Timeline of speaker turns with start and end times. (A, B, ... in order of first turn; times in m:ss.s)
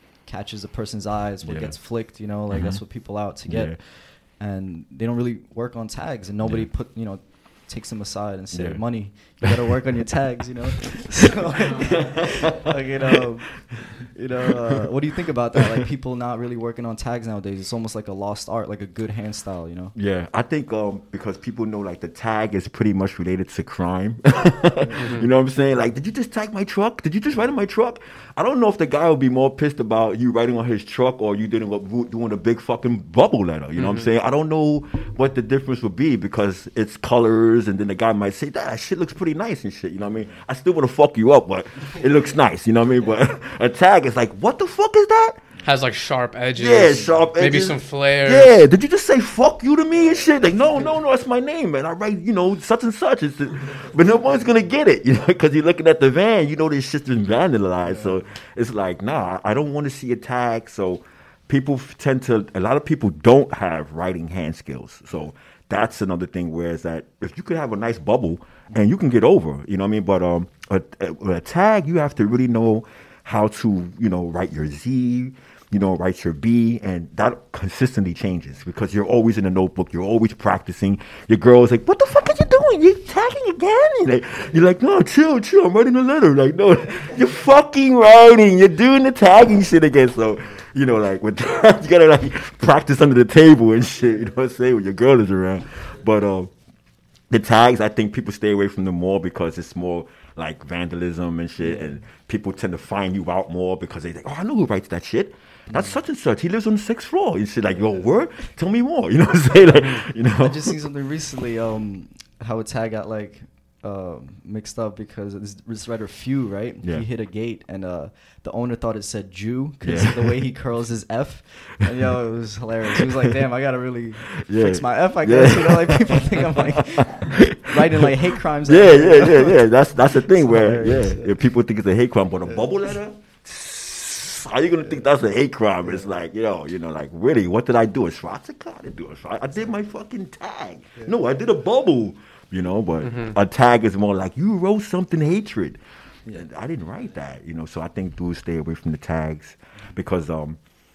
0:00.2-0:19.9 A
0:01.4-0:01.8 B
0:02.5-0:02.8 B
0:03.5-0:03.8 B
0:08.5-0:08.8 B
0:11.8-0:13.8 B
0:19.9-0:45.5 B
0:24.8-0:25.1 A
0:25.0-0:25.3 C
0:33.8-0:34.1 C
0:45.6-0:48.6 C
0:46.5-1:36.5 B
1:37.3-1:50.7 B
1:41.6-1:42.0 A
1:45.7-1:46.0 A
1:50.4-2:11.4 A
1:59.8-2:00.4 B
2:04.3-2:25.8 B
2:15.8-2:16.1 A
2:23.0-2:23.4 C
2:26.3-2:30.6 B